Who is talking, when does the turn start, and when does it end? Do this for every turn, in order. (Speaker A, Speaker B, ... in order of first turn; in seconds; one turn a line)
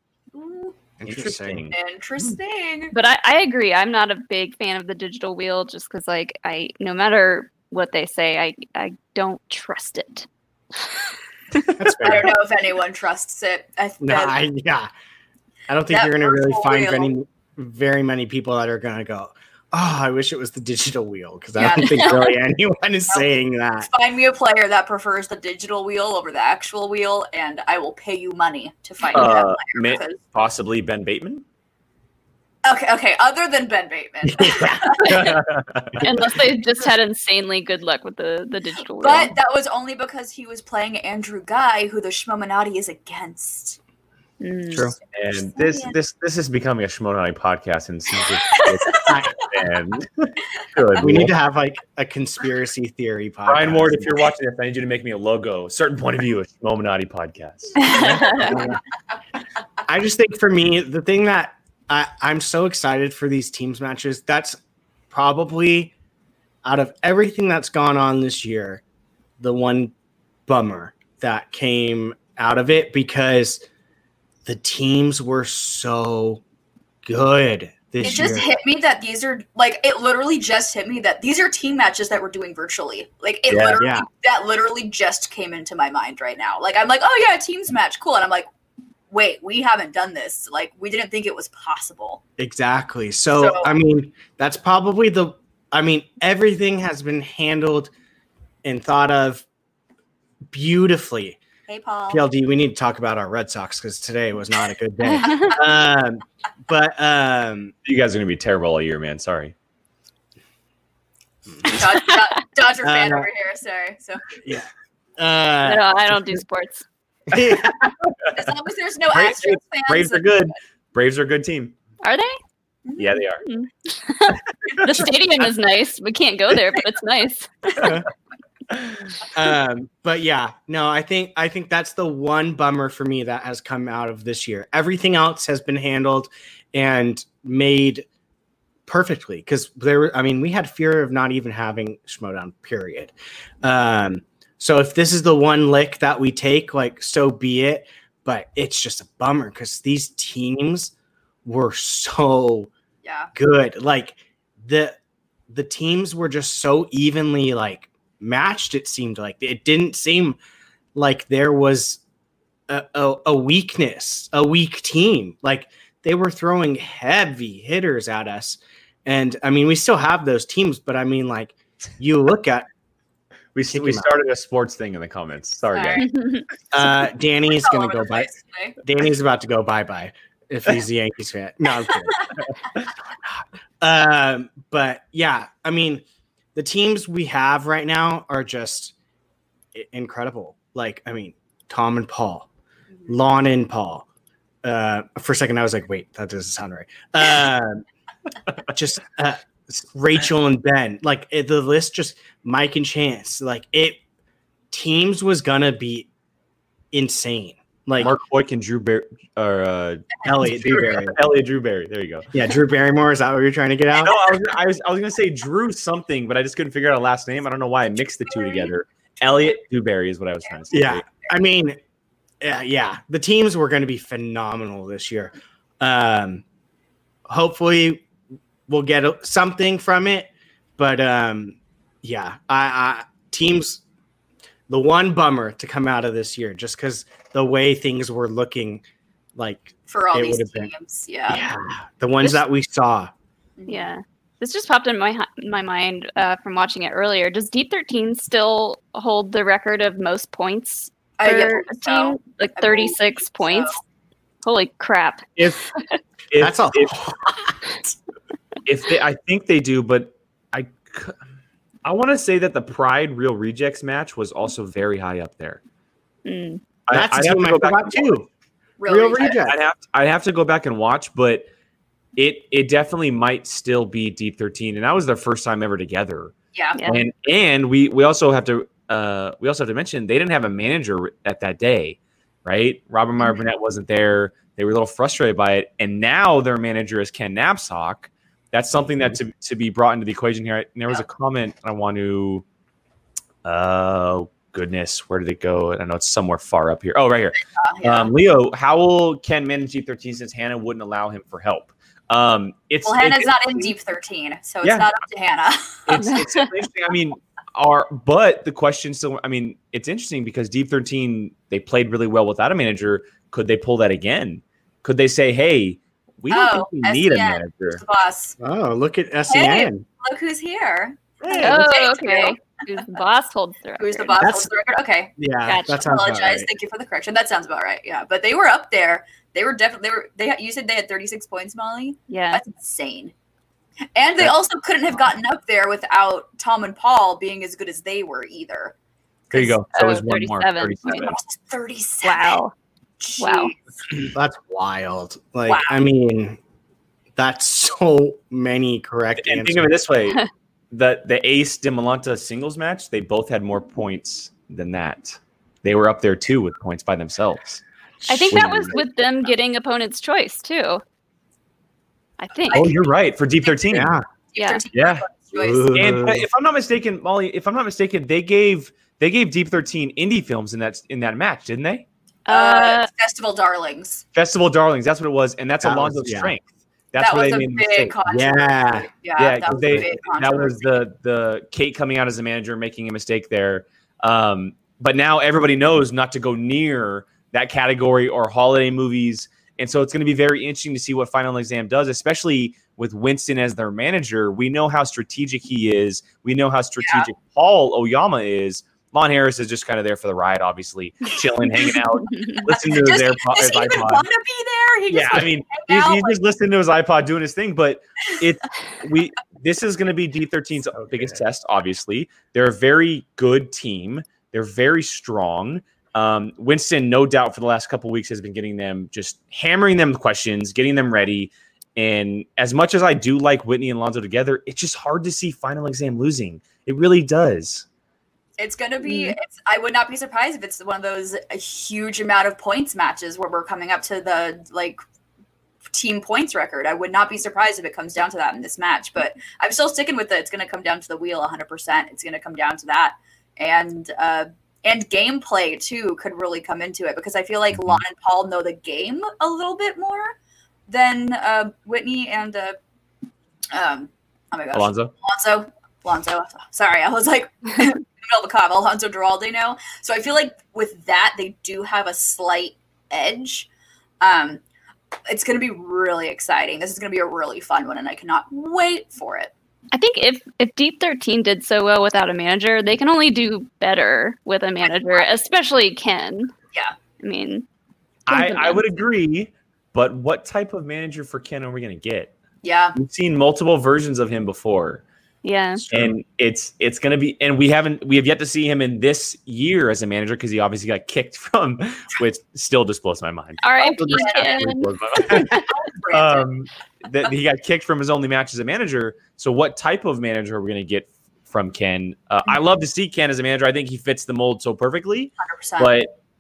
Speaker A: 0.3-0.8
Speaker B: 1.0-1.6
Speaker C: 1.1-1.8
Speaker A: 1.7-2.9
Speaker D: 2.9-10.3
Speaker B: 11.8-12.4
Speaker A: 12.0-14.4
Speaker B: 14.0-14.9
Speaker B: 15.7-23.9
Speaker A: 15.9-17.1
Speaker A: 21.6-22.4
Speaker A: 23.8-30.2
Speaker C: 29.1-31.4
Speaker A: 32.6-35.4
Speaker B: 34.3-35.2
Speaker C: 35.0-36.1
Speaker D: 36.0-39.4
Speaker A: 39.0-43.8
Speaker D: 44.4-44.9
Speaker C: 45.1-51.3
Speaker A: 45.5-45.9
Speaker A: 48.6-49.1
Speaker B: 49.1-49.4
Speaker B: 51.0-54.1
Speaker C: 53.5-58.7
Speaker D: 57.8-58.5
Speaker B: 58.0-58.8
Speaker A: 58.3-58.6
Speaker B: 59.9-64.6
Speaker B: 65.1-65.9
Speaker B: 66.6-68.8
Speaker B: 69.4-69.9
Speaker B: 70.5-73.6
Speaker B: 74.5-76.4
Speaker B: 77.0-78.5
Speaker A: 78.0-88.5
Speaker C: 83.5-83.8
Speaker B: 83.8-84.1
Speaker A: 89.1-92.2
Speaker B: 92.4-97.9
Speaker A: 93.4-93.7
Speaker B: 98.6-99.5
Speaker B: 100.5-101.4
Speaker A: 101.7-102.3
Speaker B: 102.1-107.7
Speaker D: 105.2-105.6
Speaker C: 107.9-109.5
Speaker B: 111.5-111.8
Speaker A: 111.7-114.3
Speaker D: 111.8-112.2
Speaker B: 112.8-113.3
Speaker B: 114.4-116.2
Speaker D: 115.6-116.8
Speaker B: 117.3-117.9
Speaker A: 118.3-120.5
Speaker C: 119.1-121.7
Speaker D: 122.0-122.4
Speaker A: 122.9-123.2
Speaker C: 123.0-123.4
Speaker D: 123.4-127.9
Speaker A: 124.7-125.1
Speaker B: 127.8-128.1
Speaker C: 128.7-129.0
Speaker B: 129.3-138.1
Speaker B: 138.9-150.9
Speaker B: 151.4-152.7
Speaker A: 153.0-153.3
Speaker B: 153.3-155.0
Speaker B: 155.5-160.4
Speaker B: 160.9-162.0
Speaker B: 162.7-172.7
Speaker C: 173.6-176.2
Speaker B: 173.7-174.2
Speaker A: 175.7-176.1
Speaker D: 176.0-176.4
Speaker B: 176.7-178.3
Speaker A: 177.4-178.8
Speaker B: 178.8-182.3
Speaker B: 183.2-186.0
Speaker B: 186.6-188.9
Speaker B: 189.7-192.5
Speaker B: 193.1-194.1
Speaker B: 194.6-197.8
Speaker B: 198.7-204.0
Speaker B: 204.7-206.1
Speaker B: 206.9-208.2
Speaker C: 208.0-212.3
Speaker B: 210.2-211.2
Speaker B: 212.3-214.2
Speaker C: 214.0-221.1
Speaker A: 218.4-218.7
Speaker B: 220.7-221.8
Speaker B: 222.4-226.4
Speaker B: 227.3-228.1
Speaker B: 228.7-233.8
Speaker B: 234.7-238.8
Speaker B: 239.4-240.7
Speaker A: 239.9-241.5
Speaker B: 241.3-243.1
Speaker A: 243.6-243.9
Speaker D: 243.7-253.8
Speaker A: 251.2-253.8
Speaker D: 254.4-256.0
Speaker C: 256.3-257.0
Speaker B: 256.4-257.6
Speaker C: 258.6-261.2
Speaker C: 261.9-265.6
Speaker D: 266.2-266.6
Speaker C: 266.9-268.2
Speaker B: 266.9-268.3
Speaker A: 268.8-269.4
Speaker B: 268.9-269.6
Speaker C: 269.4-271.5
Speaker C: 272.2-276.3
Speaker A: 276.5-276.8
Speaker D: 276.8-277.0
Speaker C: 276.9-292.4
Speaker C: 293.4-303.7
Speaker A: 297.6-298.1
Speaker A: 302.9-306.0
Speaker C: 304.6-304.9
Speaker C: 305.9-317.8
Speaker D: 306.0-306.4
Speaker A: 316.3-318.4
Speaker B: 318.4-319.9
Speaker A: 319.3-322.4
Speaker C: 321.2-321.6
Speaker D: 321.4-324.2
Speaker A: 323.8-325.1
Speaker B: 324.2-324.5
Speaker B: 325.2-326.5
Speaker D: 325.5-325.9
Speaker A: 325.7-333.1
Speaker D: 332.1-332.4
Speaker A: 333.9-338.7
Speaker A: 339.3-339.6
Speaker C: 339.3-341.2
Speaker D: 339.7-341.1
Speaker A: 340.9-342.4
Speaker D: 342.0-342.5
Speaker A: 343.0-343.6
Speaker D: 343.2-343.5
Speaker B: 344.0-346.4
Speaker A: 345.5-345.8
Speaker B: 347.2-349.7
Speaker C: 349.2-357.6
Speaker B: 358.1-358.7
Speaker D: 358.1-360.8
Speaker C: 358.3-358.7
Speaker D: 362.2-362.7
Speaker A: 362.5-362.9
Speaker C: 362.5-364.0
Speaker B: 363.7-364.1
Speaker A: 364.3-365.7
Speaker D: 364.4-364.6
Speaker C: 364.7-365.1
Speaker B: 365.4-366.3
Speaker C: 365.7-371.9
Speaker D: 372.3-372.9
Speaker A: 372.3-374.0
Speaker C: 374.1-378.0
Speaker B: 375.6-376.3
Speaker A: 377.0-380.7
Speaker B: 378.1-378.9
Speaker C: 379.2-404.1
Speaker B: 379.5-379.9
Speaker D: 402.1-402.4
Speaker A: 402.5-406.2
Speaker C: 404.9-427.6
Speaker B: 410.8-411.2
Speaker A: 428.4-434.8
Speaker D: 428.8-429.2
Speaker A: 435.7-450.1
Speaker C: 447.6-447.8
Speaker A: 450.7-452.6
Speaker A: 453.5-463.5
Speaker C: 454.5-454.9
Speaker A: 464.0-464.4
Speaker A: 465.1-469.3
Speaker D: 469.7-476.3
Speaker A: 474.6-475.1
Speaker D: 477.0-477.4
Speaker C: 478.1-482.1
Speaker D: 478.1-478.7
Speaker A: 482.4-482.8
Speaker C: 482.8-484.8
Speaker D: 485.2-485.6
Speaker B: 485.6-485.9
Speaker C: 485.7-505.9
Speaker D: 493.4-495.5
Speaker A: 493.6-496.3
Speaker A: 505.2-505.8